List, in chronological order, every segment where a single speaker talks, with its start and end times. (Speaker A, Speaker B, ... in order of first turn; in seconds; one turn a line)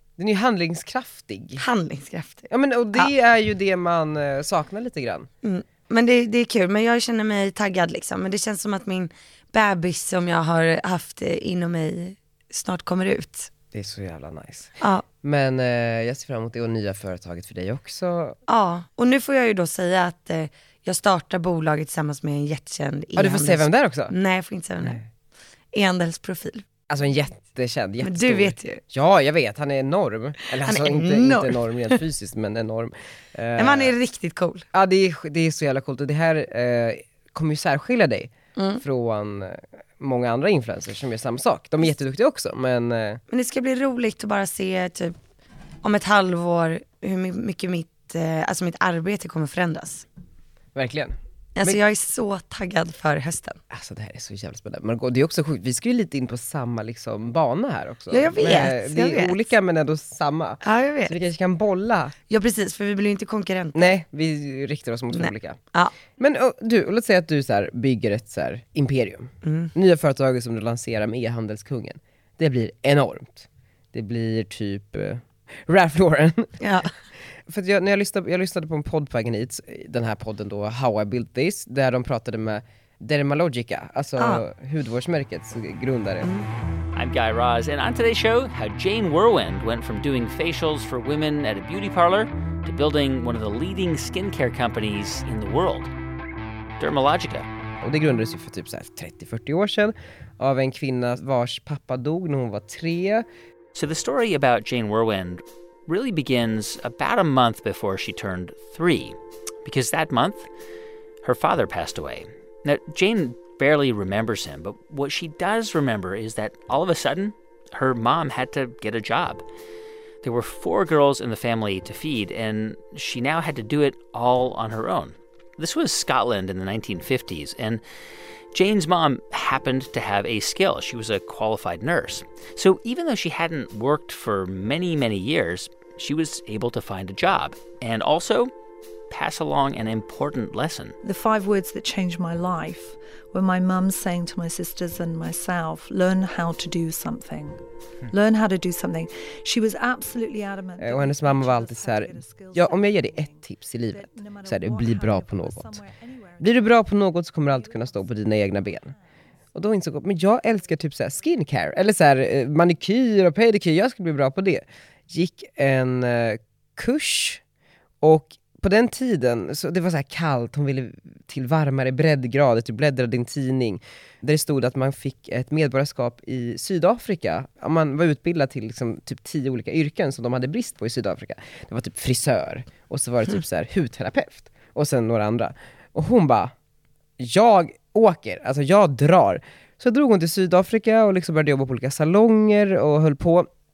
Speaker A: 0.2-1.6
Speaker B: 1.6-3.1
Speaker A: 2.5-5.3
Speaker B: 5.4-13.5
Speaker A: 13.7-18.4
Speaker B: 14.8-15.0
Speaker B: 18.5-25.0
Speaker A: 23.1-24.1
Speaker A: 24.8-25.1
Speaker B: 25.7-26.6
Speaker A: 26.9-33.9
Speaker B: 28.0-28.8
Speaker B: 30.6-32.0
Speaker B: 33.6-34.6
Speaker A: 34.7-43.2
Speaker B: 38.6-38.8
Speaker B: 43.3-45.1
Speaker B: 45.8-50.0
Speaker A: 50.8-51.8
Speaker B: 51.6-53.6
Speaker A: 53.7-62.1
Speaker B: 58.1-59.4
Speaker B: 60.6-61.1
Speaker B: 62.3-63.8
Speaker A: 63.8-65.6
Speaker B: 65.1-65.9
Speaker A: 66.1-76.6
Speaker B: 69.4-69.7
Speaker B: 76.6-76.9
Speaker A: 77.5-86.3
Speaker B: 84.2-84.4
Speaker B: 86.2-86.5
Speaker C: 86.9-95.9
Speaker C: 96.8-97.5
Speaker A: 97.8-103.2
Speaker C: 103.8-110.5
Speaker C: 111.2-119.4
Speaker C: 120.2-127.8
Speaker C: 128.5-138.5
Speaker C: 139.1-140.9
Speaker D: 141.0-156.8
Speaker A: 150.8-155.8
Speaker A: 156.4-158.9
Speaker D: 157.4-159.0
Speaker A: 159.5-167.4
Speaker A: 168.0-186.5
Speaker A: 187.2-193.5